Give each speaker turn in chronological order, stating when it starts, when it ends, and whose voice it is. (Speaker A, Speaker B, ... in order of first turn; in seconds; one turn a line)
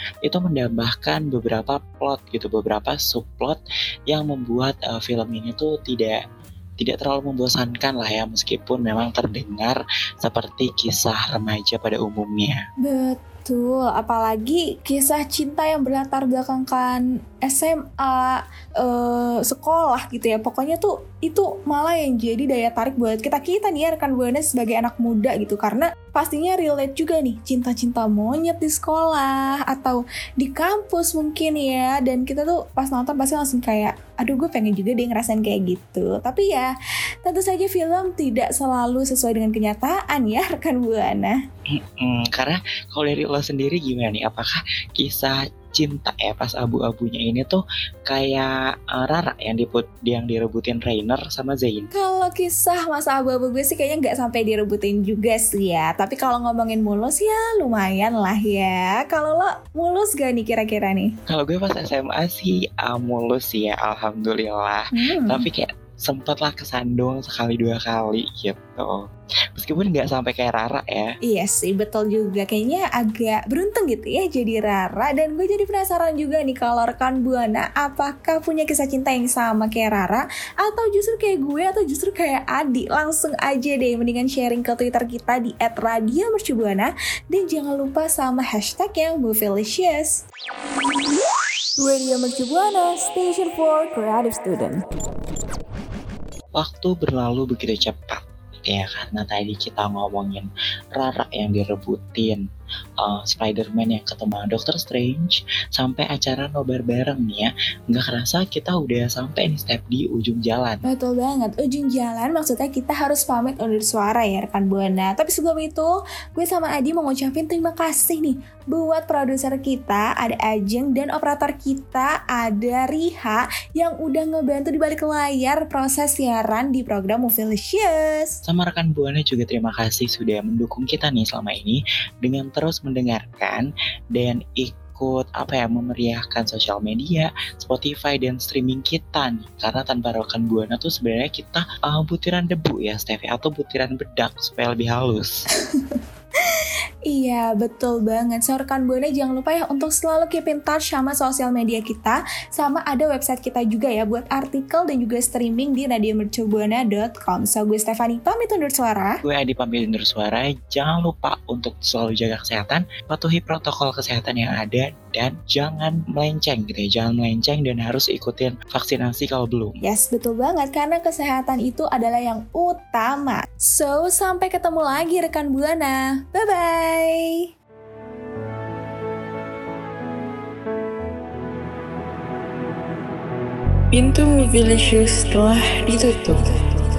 Speaker A: 0.2-6.2
Speaker A: 6.8-12.6
Speaker B: 12.8-36.7
Speaker B: 37.2-41.4
Speaker A: 41.7-51.9
Speaker B: 51.9-61.1
Speaker A: 61.3-69.0
Speaker B: 65.0-65.5
Speaker A: 69.6-71.2
Speaker B: 71.2-90.2
Speaker B: 91.8-94.8
Speaker A: 96.5-102.4
Speaker A: 103.0-110.8
Speaker B: 110.9-128.4
Speaker A: 128.5-145.4
Speaker B: 145.7-146.0
Speaker B: 146.5-159.2
Speaker A: 159.2-169.8
Speaker B: 169.8-177.5
Speaker C: 183.9-186.4